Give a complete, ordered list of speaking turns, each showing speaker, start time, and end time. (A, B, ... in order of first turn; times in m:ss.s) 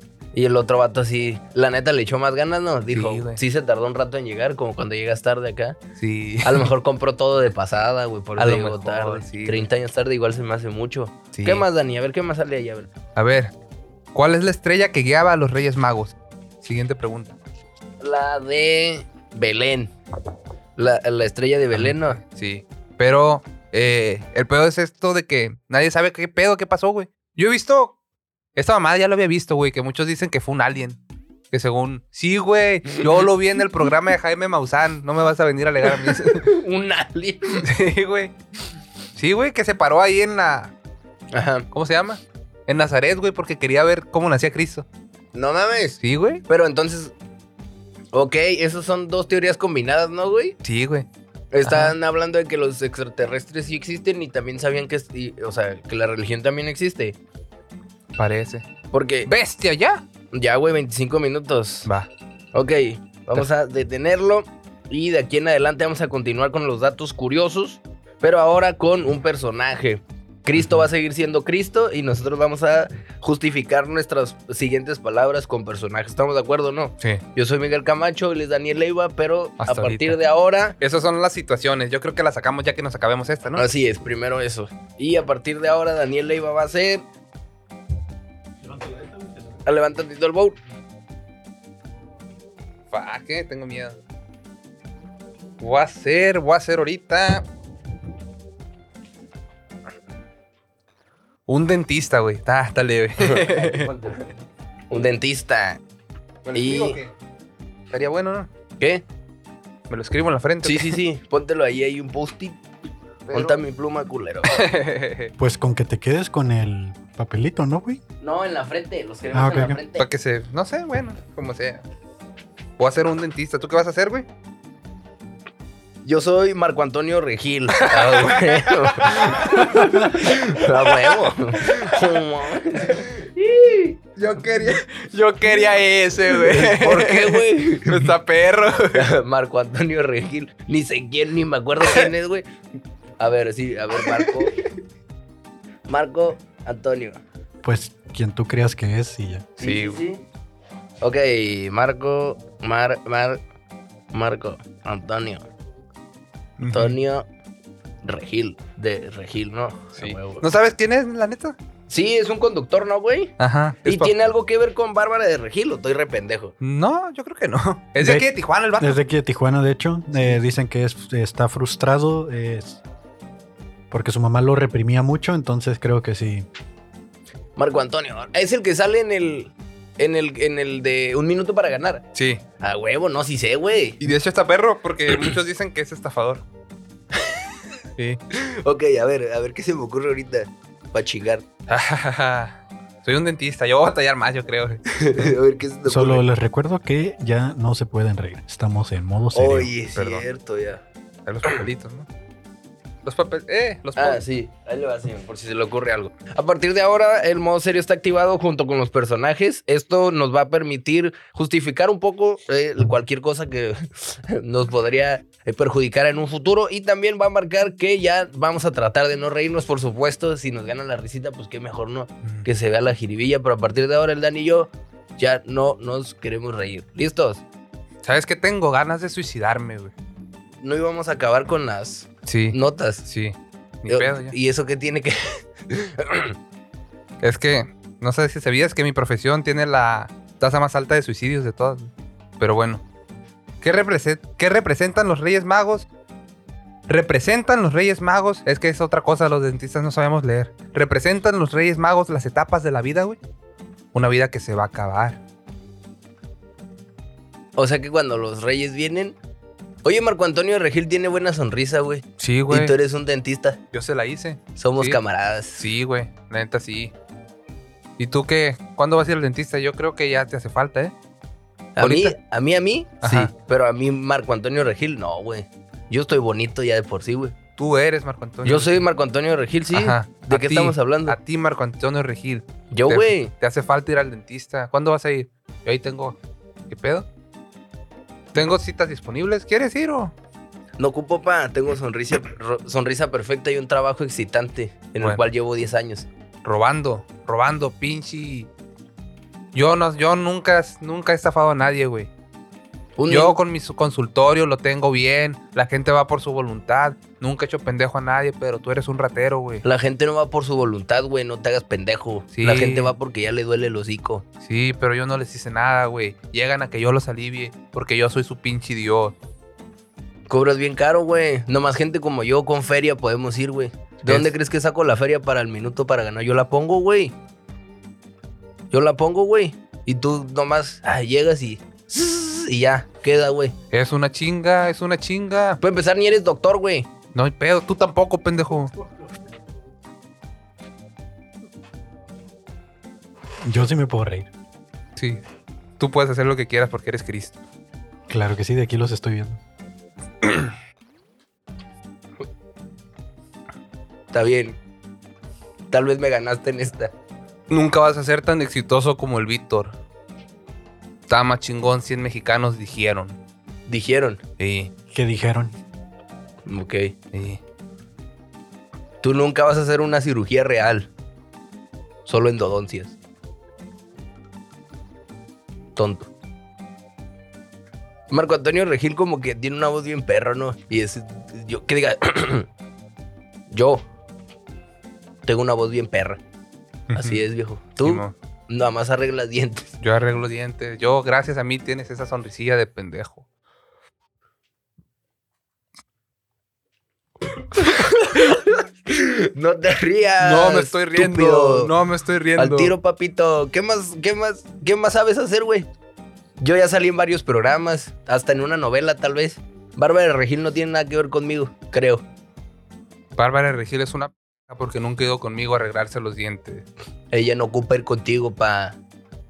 0:00.3-0:05.8 A
0:02.9-0:03.4 B
0:06.0-0:06.7 B
0:06.4-0:12.9 A
0:08.4-0:09.7 B
0:11.3-0:11.6 B
0:13.1-0:13.5 B
0:14.1-0:17.4 B
0:18.0-0:19.9 A
0:20.8-0:22.2 A
0:21.7-0:28.0 B
0:28.6-0:31.0 B
0:31.5-0:36.4 B
0:36.0-0:37.6 A
0:37.6-0:38.3 B
0:39.1-0:40.7 B
0:41.3-0:41.7 A
0:41.7-0:44.9 B
0:45.3-0:47.1 A
0:46.0-0:46.4 B
0:48.1-0:50.6 A
0:50.6-0:51.1 B
0:51.5-0:57.2 A
0:51.6-0:51.9 B
0:58.2-0:58.6 B
0:58.9-0:59.3 A
0:59.2-1:00.0 B
1:00.3-1:01.9 A
1:02.5-1:20.8 A
1:10.6-1:10.8 B
1:19.6-1:20.2 B
1:20.8-1:23.6 B
1:23.6-1:27.0 A
1:29.6-1:30.6 A
1:32.9-1:34.0 B
1:35.6-1:37.4 B
1:41.5-1:43.9 B
1:43.2-1:44.3 A
1:44.9-1:45.8 A
1:46.4-1:47.1 B
1:46.5-1:47.0 A
1:47.9-1:48.5 B
1:49.9-1:51.0 B
1:50.6-1:52.6 A
1:53.3-1:53.6 B
1:53.3-1:54.7 A
1:54.5-1:55.3 B
1:55.4-1:58.0 C
1:58.2-2:00.0 A
1:59.3-1:59.8 C
2:00.0-2:01.8 B
2:02.8-2:04.2 B
2:06.0-2:14.0 A
2:07.8-2:11.9 B
2:14.2-2:19.1 B
2:16.3-2:18.1 A
2:18.9-2:22.4 A
2:21.8-2:22.1 B
2:23.2-2:24.5 A
2:24.0-2:24.5 B
2:25.9-2:27.2 A
2:27.6-2:29.5 C
2:29.6-2:30.2 A
2:29.6-2:30.0 B
2:31.0-2:33.4 A
2:34.1-2:35.4 A
2:36.6-2:36.9 B
2:36.7-2:37.2 A
2:38.0-2:40.4 A
2:40.0-2:41.6 B
2:41.9-2:46.5 A
2:43.4-2:44.1 B
2:46.6-2:49.0 B
2:48.0-2:48.3 C
2:48.8-2:52.8 C
2:53.9-2:56.4 C
2:57.6-3:02.0 A
3:02.1-3:02.4 B
3:02.6-3:04.0 A
3:04.0-3:06.4 B
3:08.3-3:11.4 A
3:11.7-3:14.8 B
3:14.9-3:16.2 A
3:15.9-3:19.7 C
3:19.3-3:20.8 A
3:19.9-3:20.2 B
3:21.2-3:22.1 B
3:23.0-3:24.2 B
3:24.0-3:47.4 A
3:48.0-3:49.9 B
3:50.6-3:53.0 A
3:52.2-3:54.3 B
3:53.9-3:56.3 A
3:57.2-4:02.8 B
4:03.6-4:05.9 B
4:06.9-4:13.2 B
4:13.9-4:15.2 B
4:17.6-4:19.2 A
4:19.8-4:23.6 A
4:22.2-4:22.8 B
4:23.7-4:25.0 B
4:24.6-4:25.6 A
4:25.6-4:26.9 B
4:28.0-4:30.9 B
4:31.8-4:37.4 A
4:31.8-4:32.2 B
4:33.0-4:33.3 B
4:37.6-4:38.8 B
4:38.4-4:41.2 A
4:39.7-4:46.2 B
4:42.7-4:43.3 A
4:46.7-4:47.1 B
4:48.3-4:50.1 B
4:50.8-4:56.1 A
4:56.4-4:58.5 B
4:59.5-5:02.1 B
5:03.0-5:03.4 A
5:03.1-5:09.6 B
5:09.6-5:14.2 A
5:12.3-5:12.9 B
5:14.4-5:19.2 B
5:20.3-5:27.1 A
5:24.0-5:24.3 B
5:28.7-5:33.5 A
5:33.7-5:35.6 B
5:35.6-5:36.9 A
5:37.1-5:38.7 B
5:43.4-5:44.3 C
5:45.0-5:45.2 B
5:45.8-5:47.4 B
5:48.1-5:49.4 C
5:54.1-5:54.6 A
5:55.7-5:56.9 A
5:57.5-5:59.7 B
6:01.1-6:03.2 B
6:03.7-6:04.2 A
6:04.4-6:04.7 B
6:04.9-6:05.6 C
6:06.4-6:06.9 A
6:07.1-6:07.4 B
6:09.0-6:10.9 A
6:12.0-6:13.0 A
6:15.8-6:16.1 A
6:18.1-6:22.5 A
6:23.5-6:23.8 A
6:25.2-6:26.2 A
6:26.9-6:27.2 B
6:26.9-6:29.7 A
6:27.8-6:28.1 B
6:29.8-6:33.2 B
6:37.5-6:41.7 A
6:40.2-6:42.7 B
6:42.4-6:45.7 A
6:46.4-6:52.0 A
6:53.2-6:56.7 B
6:57.1-6:58.8 A